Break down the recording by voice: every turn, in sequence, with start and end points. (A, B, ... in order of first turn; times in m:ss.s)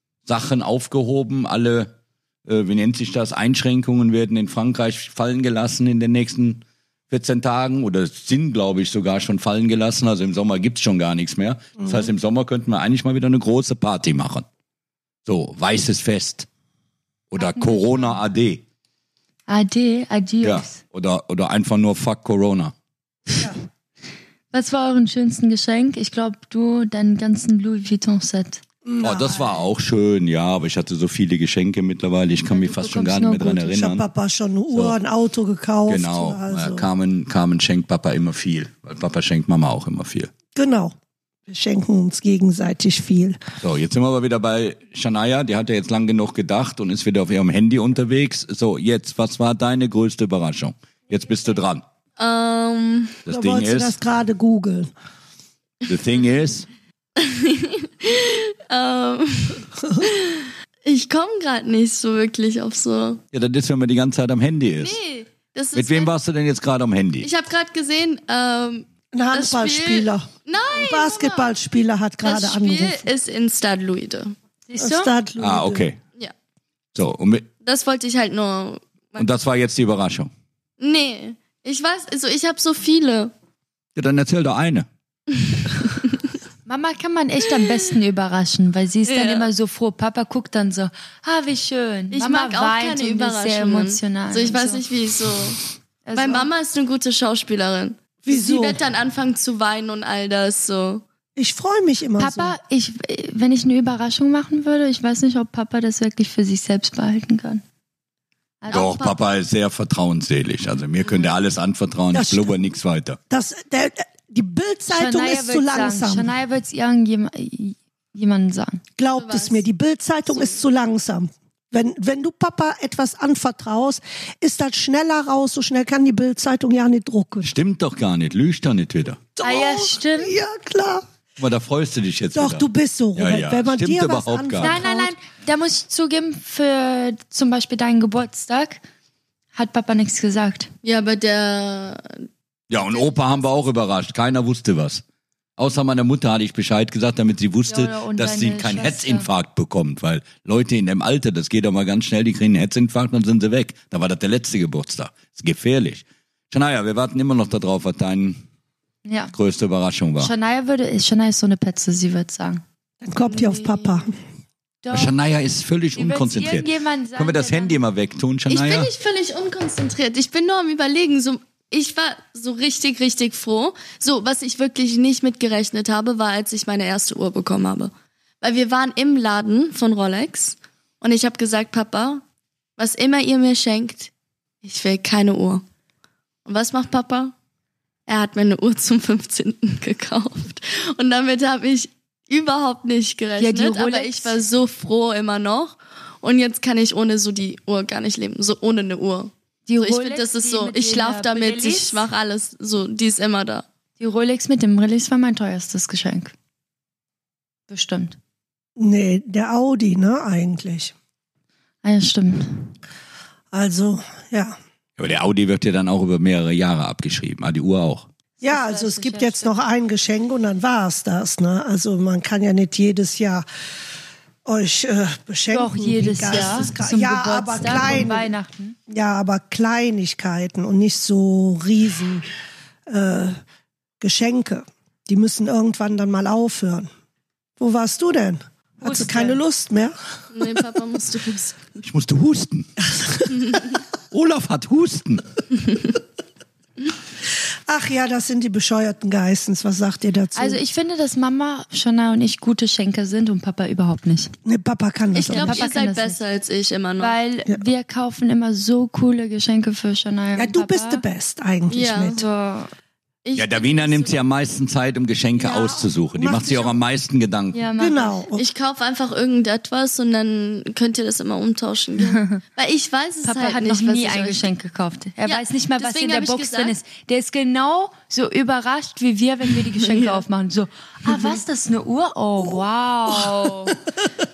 0:00.3-0:01.9 A
0:02.5-0:14.4 A
0:11.8-0:12.1 B
0:15.3-0:16.5 A
0:17.3-0:18.6 A
0:17.4-0:18.2 C
0:19.5-0:20.8 C
0:20.4-0:22.7 A
0:24.5-0:28.6 C
0:28.8-0:29.7 B
0:29.0-0:34.1 A
0:32.5-0:33.8 C
0:33.7-0:36.9 B
0:34.7-0:35.0 A
0:35.9-0:40.3 A
0:40.6-0:41.0 B
0:41.5-0:43.4 B
0:43.6-0:51.8 A
0:52.2-0:53.2 D
0:53.3-0:54.0 A
0:53.3-0:54.9 B
0:55.9-0:56.7 A
0:57.2-1:03.2 D
1:03.3-1:05.0 A
1:04.8-1:06.1 D
1:05.7-1:07.3 A
1:07.2-1:11.6 D
1:09.1-1:13.1 B
1:12.2-1:14.4 D
1:14.7-1:15.1 C
1:14.8-1:15.9 B
1:15.4-1:16.0 A
1:17.0-1:17.5 A
1:17.6-1:19.3 D
1:19.2-1:20.3 A
1:20.8-1:23.3 D
1:24.0-1:24.9 A
1:25.3-1:26.2 D
1:26.7-1:34.8 C
1:29.0-1:29.5 D
1:32.1-1:35.6 D
1:36.1-1:36.5 C
1:36.1-1:41.0 D
1:38.2-1:38.8 B
1:41.4-1:42.6 B
1:42.2-1:47.6 C
1:48.6-1:48.9 C
1:48.7-1:49.2 D
1:48.7-1:53.2 A
1:52.1-1:52.6 B
1:53.3-1:56.4 B
1:54.9-1:58.8 C
1:59.0-2:07.5 B
1:59.2-1:59.6 D
2:00.3-2:00.6 D
2:07.4-2:09.2 A
2:09.4-2:11.0 B
2:09.4-2:10.4 C
2:11.4-2:14.8 A
2:12.3-2:15.2 B
2:14.6-2:18.8 C
2:19.6-2:20.7 C
2:20.8-2:22.3 D
2:22.7-2:25.0 A
2:25.6-2:38.4 A
2:27.7-2:29.3 C
2:39.0-2:39.3 C
2:39.3-2:40.3 A
2:40.2-2:42.6 C
2:43.0-2:44.2 B
2:43.3-2:44.1 D
2:44.8-2:45.1 C
2:44.9-2:48.9 A
2:46.0-2:47.8 C
2:48.5-3:02.2 D
3:02.8-3:04.1 D
3:04.6-3:05.6 D
3:06.5-3:07.3 D
3:08.1-3:23.7 D
3:13.4-3:14.4 C
3:19.7-3:22.1 C
3:24.0-3:26.3 C
3:27.7-3:28.2 C
3:28.8-3:30.9 B
3:31.8-3:32.7 C
3:33.5-3:34.6 B
3:35.0-3:38.1 A
3:38.4-3:39.6 C
3:38.4-3:43.5 B
3:44.4-3:48.3 B
3:45.5-3:48.8 C
3:48.9-3:52.3 B
3:52.9-3:53.4 B
3:54.0-3:56.9 B
3:57.6-4:00.0 B
3:58.8-3:59.4 C
4:00.3-4:01.8 D
4:01.8-4:02.7 A
4:02.8-4:03.8 B
4:03.3-4:03.8 D
4:04.1-4:05.2 A
4:07.7-4:10.6 B
4:10.4-4:14.3 C
4:14.5-4:15.7 B
4:15.1-4:17.2 D
4:15.3-4:16.2 C
4:17.0-4:21.0 C
4:20.4-4:22.2 B
4:21.7-4:22.2 D
4:22.1-4:22.7 C
4:23.2-4:24.2 D
4:23.4-4:27.6 A
4:25.4-4:25.7 D
4:26.2-4:26.8 B
4:27.5-4:28.2 C
4:27.8-4:28.5 B
4:28.4-4:34.5 D
4:32.0-4:32.4 C
4:33.2-4:43.8 C
4:35.2-4:36.8 D
4:39.7-4:40.2 D
4:41.1-4:41.4 D